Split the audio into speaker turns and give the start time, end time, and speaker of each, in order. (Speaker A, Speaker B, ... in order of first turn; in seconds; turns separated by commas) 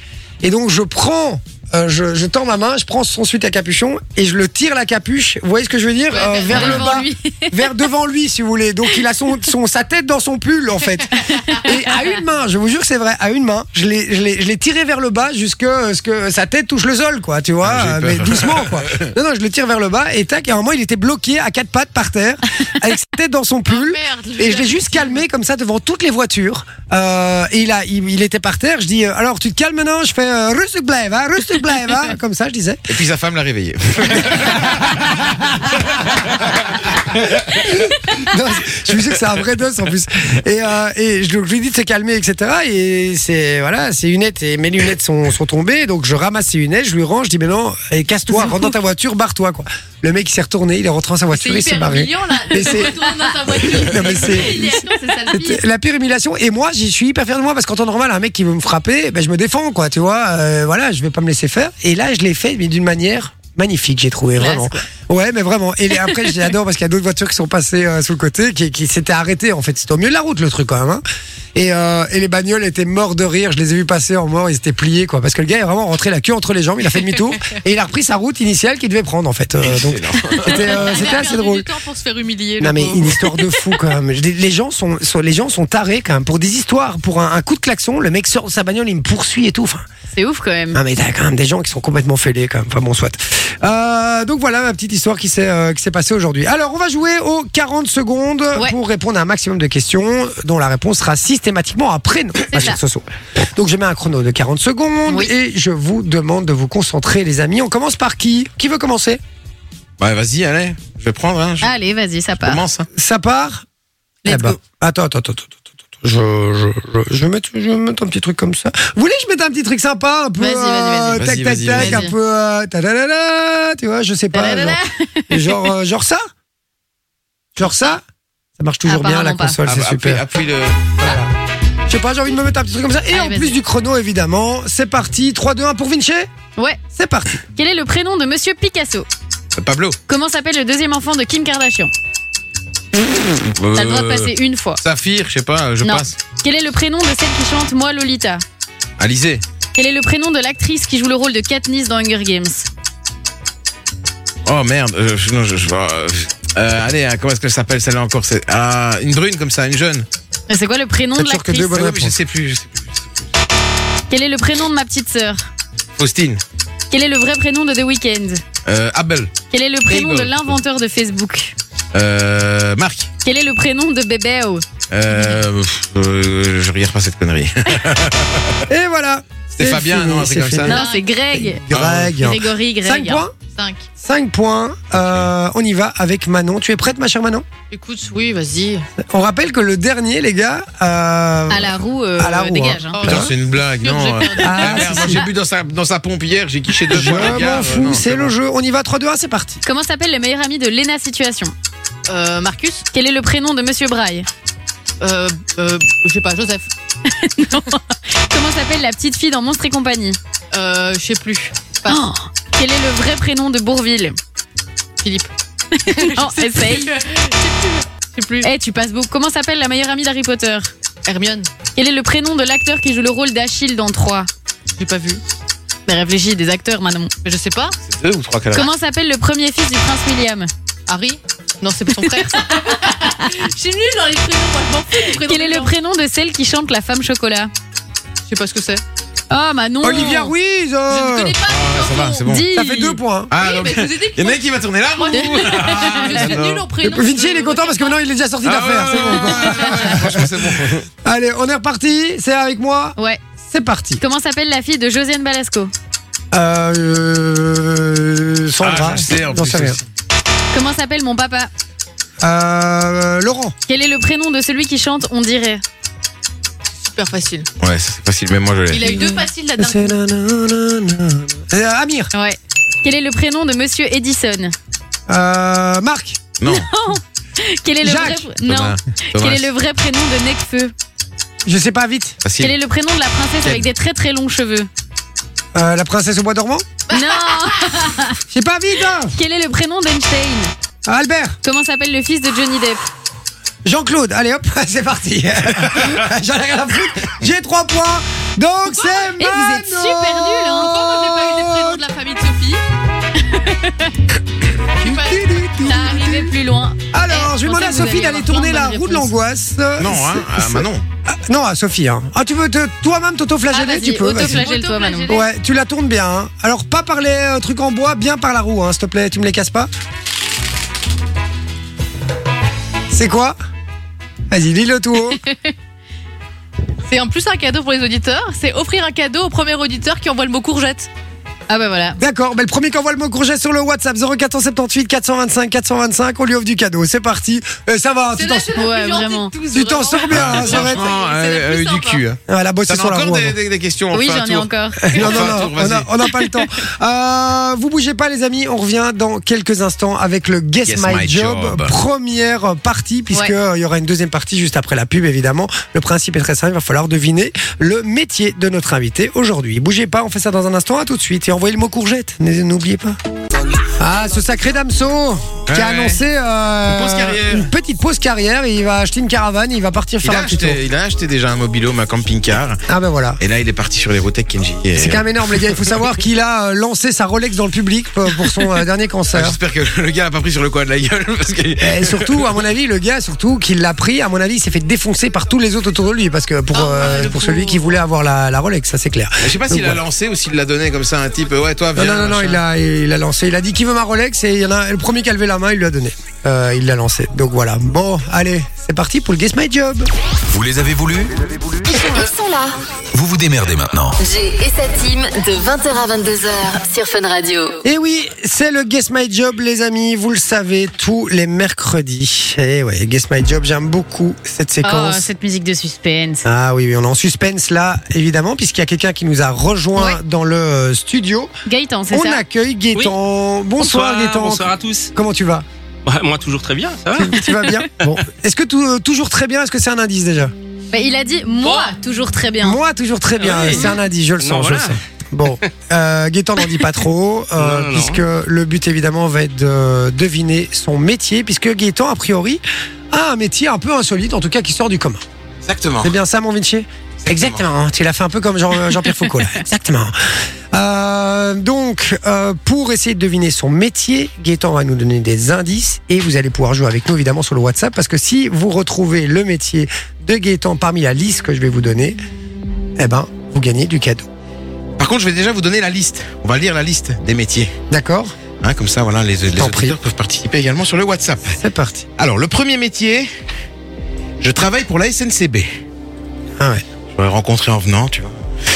Speaker A: 0.4-32.9, Speaker B: 6.1-6.8, Speaker C: 6.1-7.8, Speaker D: 6.5-6.8, Speaker C: 11.3-12.1, Speaker D: 17.6-19.1, Speaker B: 23.7-25.2, Speaker D: 32.9-37.4, Speaker A: 34.1-36.5, Speaker A: 37.5-71.0, Speaker B: 51.3-55.6, Speaker C: 64.4-64.8, Speaker A: 71.5-81.7, Speaker D: 79.6-81.0, Speaker B: 80.5-83.7, Speaker A: 82.6-89.8, Speaker C: 90.1-90.8, Speaker A: 90.7-109.2, Speaker C: 102.5-102.8, Speaker C: 105.1-105.3, Speaker D: 110.0-111.7, Speaker C: 111.6-112.6, Speaker D: 112.4-112.9, Speaker A: 112.9-113.6, Speaker C: 114.2-114.6, Speaker A: 114.3-126.2, Speaker C: 120.4-122.1, Speaker D: 121.2-122.0, Speaker C: 124.3-125.7, Speaker A: 127.5-128.0, Speaker A: 128.6-130.2, Speaker C: 128.8-129.6, Speaker D: 129.7-130.9, Speaker A: 131.0-131.3, Speaker A: 131.8-136.3, Speaker C: 133.1-133.5, Speaker A: 136.9-137.4, Speaker C: 137.5-139.1, Speaker D: 139.6-140.0, Speaker C: 140.1-141.9, Speaker D: 143.4-146.2, Speaker C: 143.7-144.8, Speaker C: 145.8-148.4, Speaker D: 149.0-149.4, Speaker C: 149.8-152.7, Speaker D: 154.4-160.1, Speaker C: 160.5-161.8, Speaker A: 161.1-162.2, Speaker D: 161.7-163.2, Speaker C: 164.1-165.5, Speaker D: 165.9-166.4, Speaker C: 166.9-168.4, Speaker D: 168.7-169.3, Speaker C: 169.5-171.5, Speaker D: 169.9-170.6, Speaker D: 171.9-173.1, Speaker C: 173.2-174.6, Speaker D: 174.9-178.6, Speaker A: 178.7-180.8, Speaker D: 179.5-180.8, Speaker C: 180.7-181.6, Speaker B: 180.7-181.1, Speaker A: 181.3-183.3, Speaker D: 181.7-182.2, Speaker C: 182.2-183.2, Speaker B: 183.5-183.8, Speaker A: 184.0-187.4, Speaker D: 184.9-185.3, Speaker B: 187.7-188.9, Speaker A: 189.0-193.3, Speaker C: 191.5-193.0, Speaker B: 192.9-195.2, Speaker D: 193.0-198.3, Speaker A: 194.4-195.3, Speaker A: 196.9-199.6, Speaker C: 199.6-201.5, Speaker B: 202.1-202.8, Speaker C: 202.9-204.3, Speaker B: 205.0-206.7, Speaker C: 207.1-210.2, Speaker B: 210.5-212.0, Speaker C: 211.9-214.2, Speaker B: 215.0-215.3, Speaker C: 215.7-216.9, Speaker B: 215.9-218.5, Speaker C: 218.4-220.7, Speaker B: 221.1-221.5, Speaker C: 221.8-224.3, Speaker B: 224.7-225.2, Speaker C: 225.9-227.1, Speaker B: 227.2-227.8, Speaker D: 227.8-228.7, Speaker C: 228.5-230.5, Speaker B: 230.9-235.7, Speaker C: 232.3-233.2, Speaker C: 234.9-237.5, Speaker B: 238.3-238.8, Speaker C: 239.3-240.3, Speaker A: 239.8-241.3, Speaker B: 240.9-242.3, Speaker D: 241.4-242.5, Speaker C: 242.2-243.0, Speaker A: 242.5-243.3, Speaker D: 243.3-246.7, Speaker B: 243.3-247.9, Speaker C: 245.1-246.2, Speaker A: 246.8-254.0, Speaker D: 248.4-250.9, Speaker C: 254.0-255.7, Speaker A: 256.3-259.8, Speaker D: 258.6-259.8, Speaker C: 260.5-261.5, Speaker A: 262.2-263.5, Speaker C: 263.7-265.6, Speaker B: 266.8-267.5, Speaker D: 267.6-268.9, Speaker B: 268.7-270.0, Speaker C: 268.8-269.2, Speaker A: 269.6-272.1, Speaker C: 272.1-274.5, Speaker A: 275.1-276.2, Speaker D: 276.4-276.7, Speaker C: 276.4-280.7, Speaker A: 277.8-278.2, Speaker D: 278.4-279.5, Speaker A: 281.4-282.2, Speaker D: 282.2-282.5, Speaker C: 282.4-284.7, Speaker A: 285.5-286.6, Speaker B: 286.9-287.9, Speaker C: 286.9-288.2, Speaker A: 288.3-289.2, Speaker C: 289.1-290.5, Speaker A: 290.9-291.4, Speaker C: 291.4-292.9, Speaker A: 293.6-301.8, Speaker B: 298.7-299.1, Speaker C: 299.2-300.8, Speaker B: 300.6-302.6, Speaker C: 303.2-303.9, Speaker B: 304.8-306.4, Speaker A: 304.8-306.3, Speaker C: 305.6-309.1, Speaker A: 306.9-314.5, Speaker D: 309.8-310.8, Speaker C: 313.5-315.2, Speaker B: 314.0-315.2, Speaker A: 315.1-319.7, Speaker A: 322.9-323.4, Speaker A: 324.3-325.2, Speaker B: 326.8-330.9, Speaker C: 331.5-332.0, Speaker A: 332.0-338.7, Speaker B: 338.1-342.0, Speaker C: 338.5-339.3, Speaker A: 339.5-340.9, Speaker D: 340.1-346.0, Speaker A: 342.3-343.4, Speaker C: 343.9-345.4, Speaker A: 344.8-363.0, Speaker D: 350.6-351.7, Speaker A: 363.7-370.6, Speaker D: 365.5-366.0, Speaker D: 366.7-367.5, Speaker D: 370.0-372.6, Speaker A: 372.7-373.2, Speaker D: 373.2-375.8, Speaker A: 374.8-379.4, Speaker D: 379.1-382.3, Speaker A: 381.6-389.8, Speaker B: 386.5-387.8, Speaker D: 389.2-392.4, Speaker A: 391.7-399.9, Speaker E: 400.3-401.2, Speaker F: 401.6-402.6, Speaker E: 402.9-404.0, Speaker F: 404.0-407.6, Speaker A: 407.6-415.1, Speaker C: 414.6-416.2, Speaker A: 416.2-421.3, Speaker C: 421.4-422.2, Speaker A: 421.9-425.4, Speaker G: 423.6-424.9, Speaker G: 425.9-427.9, Speaker A: 426.9-430.3, Speaker C: 430.7-432.6, Speaker A: 432.4-445.0, Speaker G: 433.2-434.8, Speaker G: 437.4-438.0, Speaker D: 445.4-445.9, Speaker A: 445.8-449.9, Speaker D: 447.0-447.4, Speaker A: 450.5-462.0, Speaker A: 462.8-464.1, Speaker D: 464.8-467.5, Speaker A: 467.7-468.1, Speaker D: 468.4-471.4, Speaker A: 469.3-469.8, Speaker A: 471.3-471.9, Speaker D: 472.0-473.1, Speaker D: 474.2-475.5, Speaker A: 476.4-476.6, Speaker D: 476.9-478.1